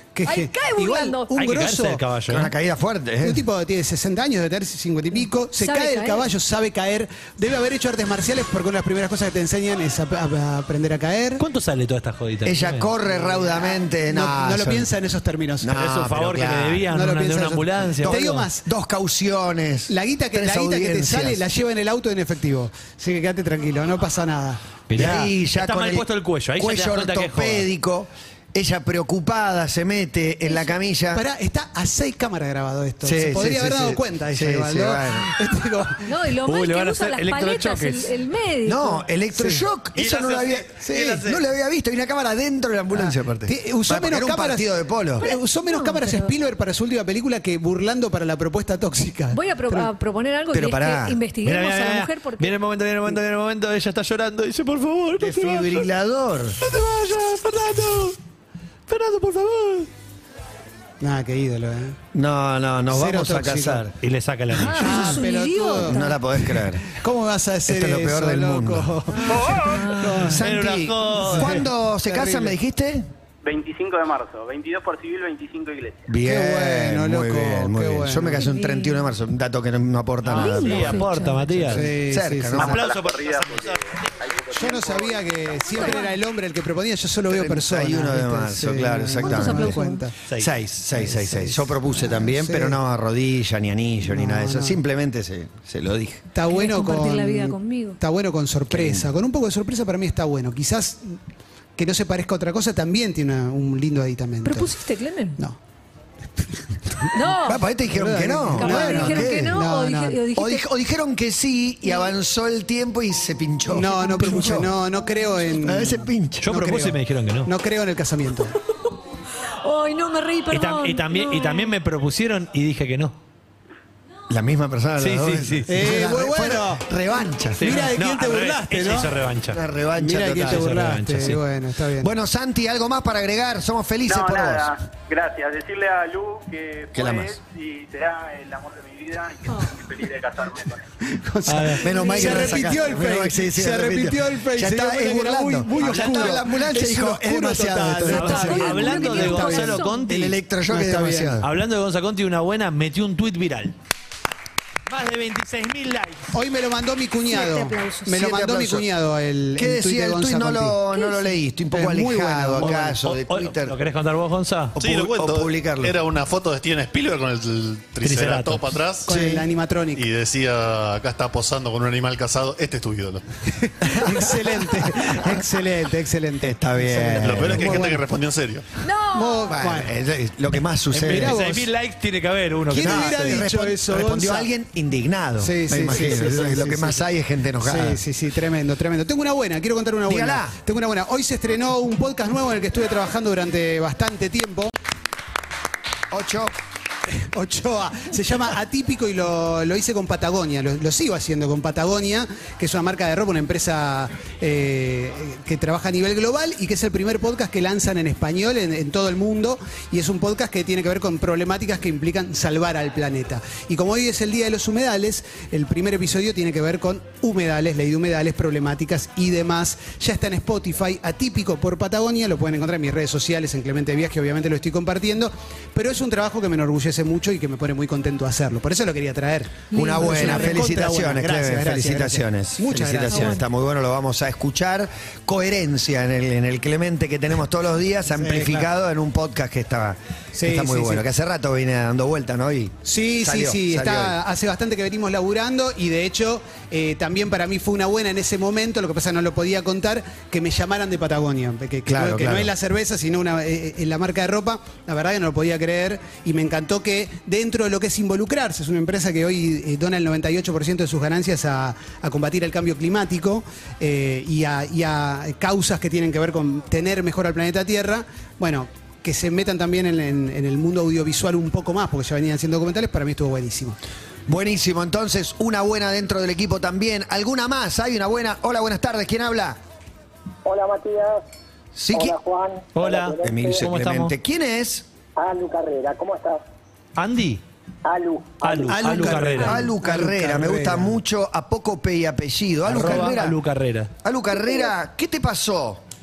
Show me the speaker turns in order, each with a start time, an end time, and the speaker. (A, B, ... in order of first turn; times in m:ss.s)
0:00.1-0:02.0 A
0:00.2-0:01.3 B
0:01.3-0:02.5 C
0:02.3-0:03.4 D
0:03.2-0:11.4 A
0:05.6-0:06.2 B
0:11.4-0:12.9 C
0:12.4-0:14.9 D
0:13.1-0:15.8 A
0:15.6-0:16.8 D
0:15.7-0:18.5 C
0:16.9-0:18.6 A
0:18.0-0:21.4 D
0:19.9-0:24.8 A
0:24.9-0:27.7 C
0:24.9-0:31.2 D
0:31.1-0:36.0 A
0:33.0-0:35.3 D
0:36.0-0:39.0 B
0:36.4-0:38.1 C
0:38.6-0:45.3 D
0:39.3-0:39.7 A
0:39.9-0:41.4 C
0:40.9-0:41.2 A
0:43.0-0:49.9 A
0:45.2-0:46.3 B
0:49.3-0:52.5 B
0:50.5-0:51.2 D
0:51.4-0:55.9 C
0:55.2-0:56.6 D
0:56.6-0:58.2 C
0:58.9-0:59.9 C
1:01.0-1:02.0 A
1:02.1-1:03.9 D
1:02.9-1:03.8 A
1:03.8-1:05.2 C
1:04.6-1:06.2 B
1:04.7-1:10.5 A
1:05.8-1:06.9 D
1:07.6-1:08.9 D
1:09.1-1:10.3 B
1:10.2-1:11.6 C
1:10.2-1:13.1 D
1:11.2-1:12.5 A
1:13.4-1:16.1 E
1:16.1-1:21.0 D
1:16.2-1:18.4 A
1:18.4-1:19.0 B
1:20.2-1:21.9 C
1:20.3-1:21.7 B
1:21.7-1:22.6 A
1:21.8-1:22.8 D
1:22.6-1:24.1 C
1:22.6-1:25.8 E
1:24.5-1:30.1 A
1:25.6-1:26.1 B
1:27.3-1:29.8 D
1:29.2-1:30.0 B
1:30.3-1:36.2 D
1:30.9-1:32.8 A
1:34.0-1:34.8 A
1:36.3-1:41.2 A
1:36.5-1:38.0 B
1:38.7-1:39.1 D
1:41.8-1:44.7 A
1:44.4-1:45.4 B
1:46.4-1:47.1 A
1:47.1-1:47.6 B
1:47.2-1:49.6 D
1:47.8-1:50.2 A
1:48.6-1:50.6 B
1:50.3-1:54.7 D
1:53.7-1:58.5 A
1:53.9-1:54.6 B
1:55.6-1:56.5 D
1:56.4-1:57.5 C
1:59.6-2:01.7 B
2:00.5-2:03.1 C
2:04.3-2:07.7 D
2:05.0-2:05.7 C
2:05.7-2:06.8 A
2:07.6-2:09.6 C
2:07.6-2:09.2 A
2:09.5-2:10.7 D
2:09.9-2:12.1 A
2:10.3-2:11.4 C
2:12.0-2:14.7 D
2:14.0-2:20.8 E
2:16.9-2:17.4 D
2:21.0-2:29.7 A
2:21.4-2:21.8 C
2:21.8-2:31.5 D
2:21.8-2:22.7 B
2:25.8-2:26.8 C
2:28.0-2:30.3 C
2:28.1-2:30.0 B
2:30.7-2:31.4 A
2:31.4-2:33.7 C
2:34.9-2:36.3 C
2:36.3-2:40.8 A
2:37.3-2:38.2 B
2:38.1-2:38.9 D
2:39.6-2:43.8 D
2:40.9-2:41.4 B
2:41.7-2:43.0 A
2:42.6-2:44.8 C
2:44.8-2:46.0 D
2:44.8-2:49.2 F
2:48.0-2:48.8 C
2:49.0-2:50.0 A
2:49.1-2:49.4 D
2:49.9-2:53.2 F
2:53.5-2:58.0 A
2:53.8-2:54.3 D
2:54.8-2:55.5 D
2:56.4-2:57.9 D
2:57.2-2:58.6 F
2:58.8-2:59.6 B
2:59.1-2:59.9 A
2:59.5-3:01.4 D
3:00.9-3:01.7 A
3:01.0-3:03.4 C
3:02.7-3:04.5 A
3:02.7-3:08.0 D
3:05.4-3:07.0 A
3:07.6-3:14.7 A
3:10.0-3:10.5 D
3:16.1-3:16.5 D
3:17.1-3:53.4 A
3:49.7-3:50.7 B
3:49.7-4:04.2 D
3:53.1-3:53.4 B
3:58.1-3:58.7 A
4:00.3-4:01.0 A
4:02.8-4:33.8 A
4:11.8-4:12.5 D
4:34.3-4:39.6 D
4:40.4-4:41.2 G
4:41.7-4:42.2 D
4:41.9-4:43.6 G
4:42.7-4:44.1 C
4:43.2-4:44.8 D
4:45.2-4:46.4 G
4:47.0-4:47.4 C
4:47.8-4:48.8 G
4:48.4-4:49.6 C
4:48.6-4:51.0 A
4:49.4-4:53.4 D
4:52.6-4:53.9 C
4:54.0-4:55.8 D
4:54.3-4:54.7 G